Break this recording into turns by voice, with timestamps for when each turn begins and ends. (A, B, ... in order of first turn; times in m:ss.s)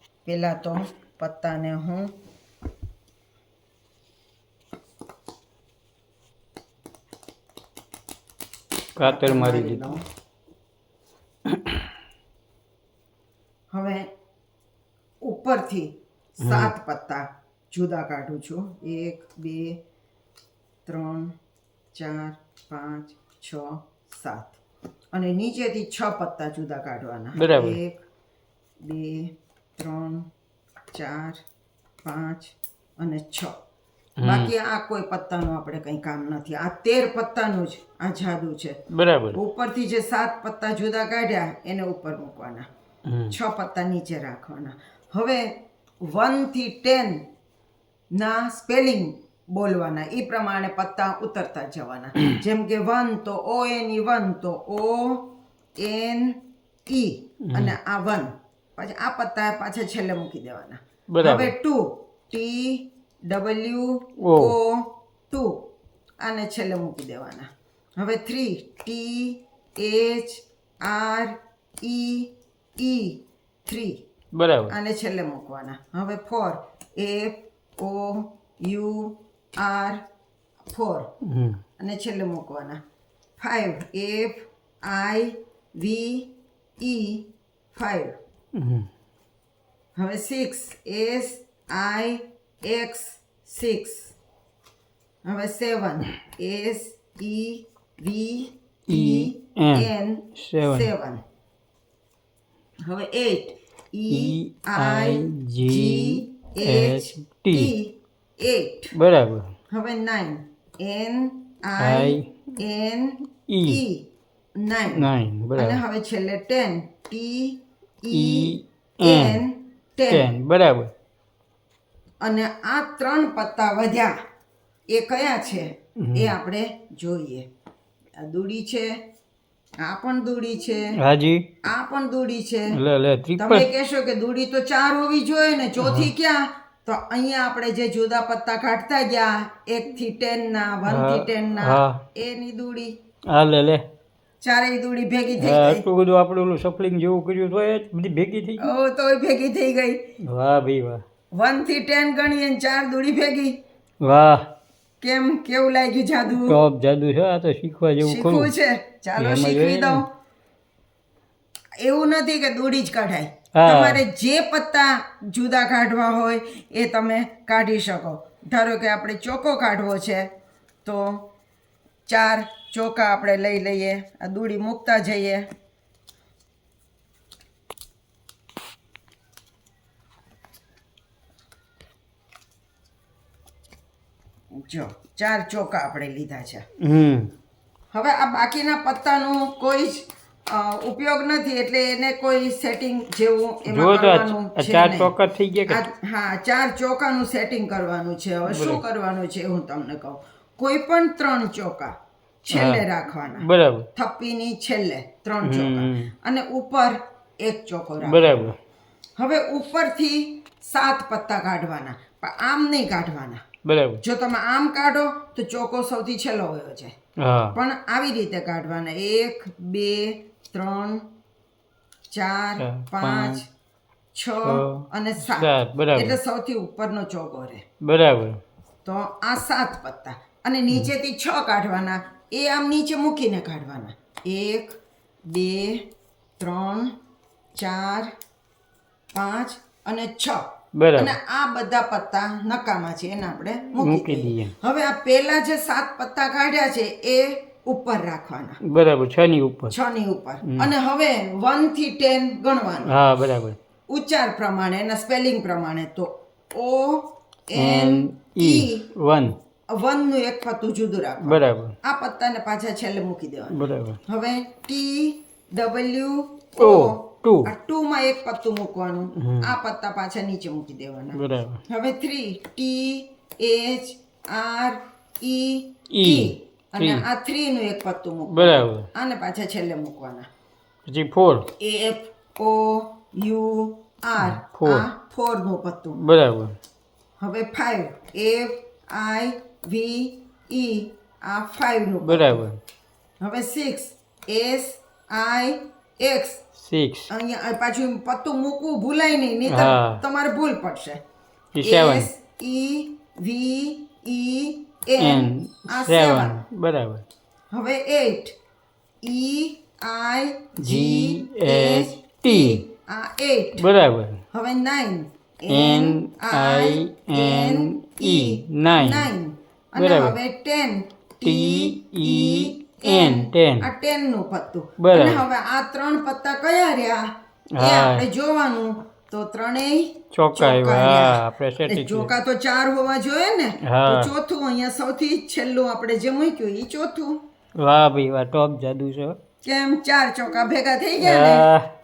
0:00.2-0:02.1 A
0:09.0-0:09.9 B
0:09.0-0:10.0 A
0:11.4-0:11.8 B
0:13.7-0:14.1 A
0:15.2-0:19.8 A
0:16.4-0:16.7 B
0:20.8-0:21.3 A
0:21.9-0:24.6 A
0:25.1-0:28.0 A
0:27.4-0:27.8 B
0:28.8-0:30.3 A
0:30.9-0:31.4 A
0:32.0-0:33.5 A
0:34.2-0:34.5 B
0:34.2-0:38.8 A
0:38.9-0:39.4 B
0:39.3-0:42.7 A
0:43.0-0:43.4 B
0:43.3-0:47.2 A
0:48.1-1:05.6 A
0:57.4-0:57.7 B
1:01.1-1:01.5 B
1:04.2-1:04.5 B
1:06.2-1:14.0 A
1:14.3-1:14.7 B
1:14.7-1:20.0 A
1:20.7-1:21.1 A
1:21.2-1:21.6 B
1:21.8-1:22.8 A
1:23.4-1:28.2 A
1:28.5-1:28.9 B
1:30.0-1:34.1 A
1:35.2-1:41.2 A
1:38.9-1:40.9 B
1:42.8-1:48.9 A
1:44.1-1:47.7 B
1:48.9-1:49.5 B
1:49.7-1:54.0 A
1:51.8-1:52.5 B
1:53.5-1:53.8 B
1:54.6-2:00.3 A
1:54.9-1:55.8 B
1:58.1-1:59.4 B
2:00.1-2:00.9 B
2:02.2-2:04.2 A
2:04.9-2:07.4 A
2:06.0-2:06.3 B
2:08.2-2:08.9 A
2:09.8-2:11.0 A
2:11.0-2:11.4 B
2:11.6-2:12.8 A
2:12.7-2:13.7 B
2:13.4-2:22.9 A
2:15.8-2:16.1 B
2:20.9-2:22.0 B
2:23.3-2:23.8 B
2:24.4-2:25.8 A
2:25.4-2:28.6 B
2:28.6-2:30.0 A
2:30.2-2:31.0 B
2:31.3-2:33.6 A
2:34.0-2:34.4 B
2:35.0-2:36.6 A
2:36.3-2:38.5 B
2:38.0-2:40.1 A
2:39.2-2:40.0 B
2:41.8-2:50.3 A
2:43.5-2:44.0 B
2:50.8-2:51.2 A
2:52.1-2:55.5 A
3:04.5-3:06.6 A
3:06.8-3:07.3 B
3:07.9-3:15.1 A
3:13.7-3:15.8 B
3:15.7-3:28.5 A
3:18.5-3:18.8 B
3:22.5-3:22.8 B
3:23.4-3:23.9 B
3:25.4-3:26.1 B
3:28.0-3:28.6 B
3:29.2-3:33.4 A
3:33.6-3:34.0 B
3:34.0-3:36.9 A
3:37.2-3:37.6 B
3:37.5-3:41.0 A
3:42.1-3:43.4 A
3:42.6-3:43.4 B
3:44.1-3:47.6 A
3:44.4-3:46.2 B
3:47.8-3:48.4 B
3:48.8-3:55.8 A
3:56.4-3:56.9 A
3:57.5-3:58.1 A
3:59.1-4:08.6 A
4:00.7-4:01.1 B
4:03.8-4:04.5 B
4:08.6-4:09.7 B
4:09.7-4:12.9 A
4:10.4-4:10.7 B
4:12.9-4:13.6 B
4:13.9-4:18.8 A
4:17.5-4:19.4 B
4:19.7-4:40.3 A
4:21.2-4:21.8 B
4:23.5-4:24.0 B
4:26.6-4:27.5 B
4:29.2-4:29.5 B
4:31.1-4:31.6 B
4:35.9-4:37.0 B
4:38.3-4:38.9 B
4:40.8-4:41.5 B
4:41.6-4:46.0 A
4:44.2-4:44.9 B
4:46.0-4:46.6 B
4:47.2-4:52.4 A
4:52.0-4:52.6 B
4:53.2-4:56.4 A
4:56.6-4:57.1 B
4:57.1-5:01.0 A
4:59.5-5:00.0 B
5:01.5-5:02.1 B
5:01.6-5:06.4 A
5:05.0-5:07.0 B
5:07.5-5:08.3 A
5:09.0-5:13.6 A
5:10.6-5:12.6 B
5:13.6-5:14.2 B
5:14.3-5:37.2 A
5:15.5-5:19.1 B
5:19.8-5:20.2 B
5:21.2-5:23.7 B
5:24.8-5:25.2 B
5:27.5-5:28.1 B
5:30.1-5:32.1 B
5:33.6-5:34.1 B
5:37.6-5:39.2 B
5:39.4-5:41.5 A
5:41.0-5:41.7 B